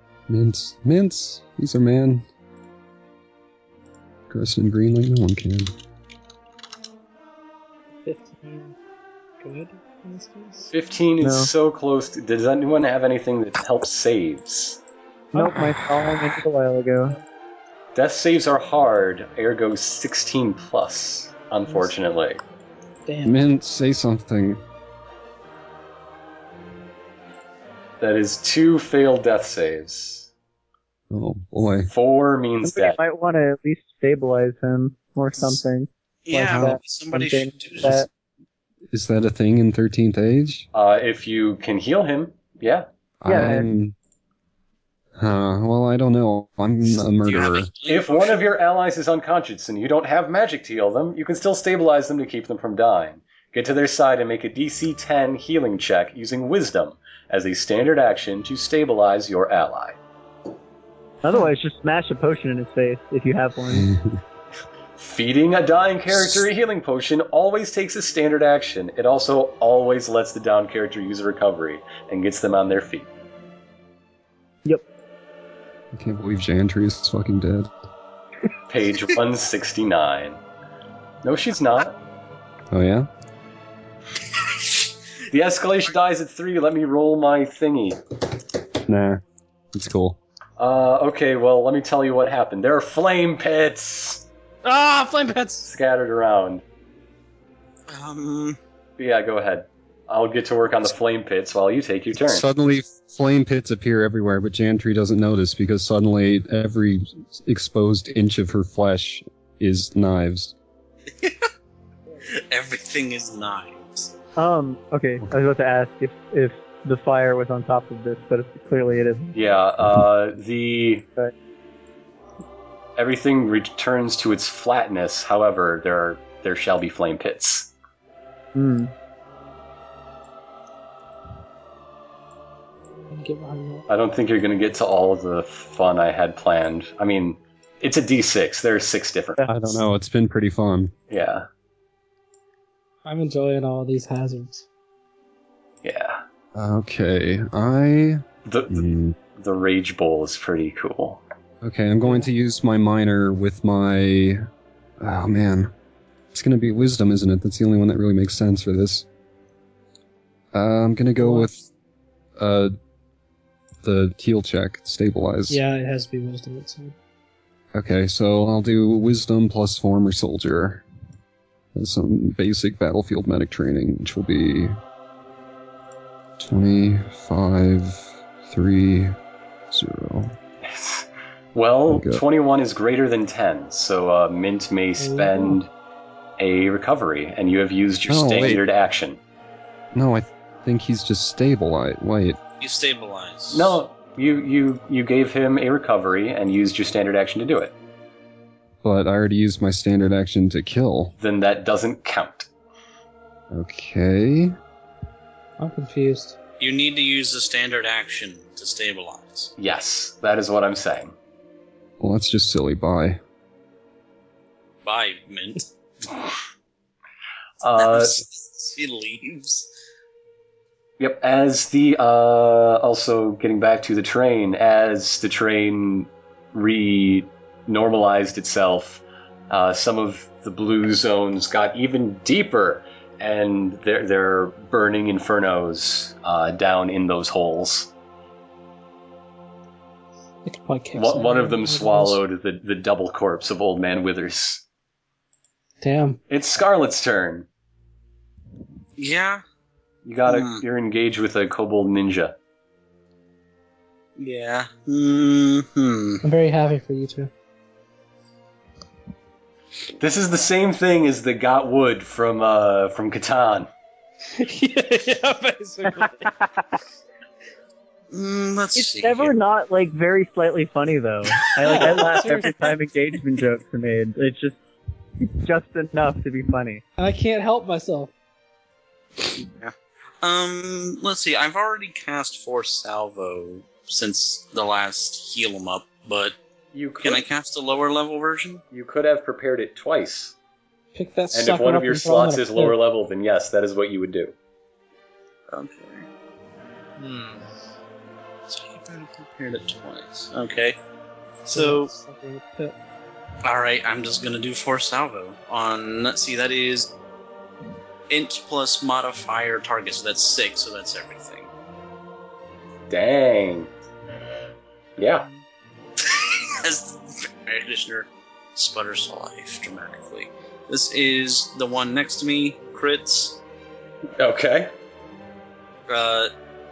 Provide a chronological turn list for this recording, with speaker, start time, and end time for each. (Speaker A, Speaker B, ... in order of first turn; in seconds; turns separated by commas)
Speaker A: 0.3-2.2, Speaker A: 4.3-5.7, Speaker B: 8.0-8.8, Speaker B: 9.4-10.7, Speaker C: 10.7-14.8, Speaker D: 11.2-11.5, Speaker D: 15.3-17.1, Speaker C: 17.9-22.4, Speaker B: 23.1-23.4, Speaker A: 23.2-24.6, Speaker C: 28.0-30.3, Speaker A: 31.1-31.9, Speaker C: 31.9-33.0, Speaker D: 32.6-38.1, Speaker E: 36.2-38.0, Speaker A: 38.9-40.7, Speaker C: 40.7-42.9, Speaker A: 43.2-43.9, Speaker D: 43.2-43.7, Speaker A: 45.1-47.7, Speaker E: 47.0-48.5, Speaker C: 47.9-60.0, Speaker D: 61.2-63.9, Speaker A: 63.7-64.2, Speaker C: 65.0-73.1, Speaker A: 75.9-77.7, Speaker C: 78.7-80.4, Speaker C: 81.2-82.0, Speaker A: 82.7-83.1, Speaker C: 85.3-88.0, Speaker A: 88.8-89.2, Speaker A: 89.7-90.2, Speaker C: 90.6-94.2, Speaker B: 94.6-95.7, Speaker C: 95.6-96.6, Speaker E: 97.9-98.6, Speaker C: 99.0-102.4, Speaker A: 102.2-110.5, Speaker E: 111.2-111.5, Speaker E: 112.3-114.1, Speaker D: 114.3-119.3, Speaker C: 119.3-121.1, Speaker C: 123.0-127.7, Speaker D: 128.5-128.9, Speaker B: 133.1-133.8, Speaker C: 133.9-139.4, Speaker A: 139.5-140.9, Speaker C: 141.1-141.5, Speaker B: 143.0-144.7, Speaker C: 145.8-146.2, Speaker A: 146.5-149.2, Speaker C: 148.4-151.2, Speaker A: 151.6-154.4, Speaker A: 155.0-155.7, Speaker A: 156.3-159.1, Speaker A: 160.5-161.5, Speaker B: 161.2-161.5, Speaker A: 162.3-162.7, Speaker A: 163.8-165.6, Speaker B: 165.5-166.9, Speaker A: 167.7-170.8, Speaker A: 171.7-174.8, Speaker A: 176.4-179.2, Speaker A: 179.7-180.4, Speaker C: 180.6-185.7, Speaker A: 181.9-182.2, Speaker B: 185.0-185.6, Speaker C: 186.4-189.2, Speaker A: 188.1-188.6, Speaker A: 189.9-192.4, Speaker E: 192.6-193.8, Speaker C: 193.5-197.7, Speaker A: 198.8-201.1, Speaker C: 201.2-202.5, Speaker A: 203.5-204.5, Speaker B: 205.6-206.3, Speaker E: 206.6-209.5, Speaker C: 209.6-211.1, Speaker A: 212.0-213.2, Speaker E: 214.8-215.7, Speaker C: 217.6-218.1, Speaker E: 217.8-219.7, Speaker C: 221.0-237.9, Speaker B: 240.4-242.2, Speaker C: 240.9-244.6, Speaker B: 245.8-246.2, Speaker C: 246.3-247.4, Speaker E: 249.0-249.4, Speaker C: 250.0-252.3, Speaker E: 250.2-250.6, Speaker E: 254.2-256.2, Speaker B: 256.2-257.3, Speaker C: 260.0-263.7, Speaker B: 264.3-266.4, Speaker E: 268.1-269.3, Speaker D: 268.7-274.6, Speaker E: 271.6-271.9, Speaker B: 271.7-272.7, Speaker D: 275.2-276.8, Speaker B: 277.0-278.1, Speaker E: 279.3-286.4, Speaker C: 286.7-287.2, Speaker E: 287.0-288.6, Speaker C: 288.7-290.3, Speaker B: 290.9-292.8, Speaker C: 291.3-294.3, Speaker E: 295.5-296.1, Speaker E: 297.0-297.4, Speaker E: 298.5-300.8, Speaker E: 301.4-301.9, Speaker B: 301.5-302.7, Speaker E: 303.4-306.9, Speaker E: 308.1-311.5, Speaker C: 312.9-313.7, Speaker C: 315.0-315.3, Speaker E: 316.6-323.4, Speaker C: 324.2-324.7, Speaker E: 325.9-326.3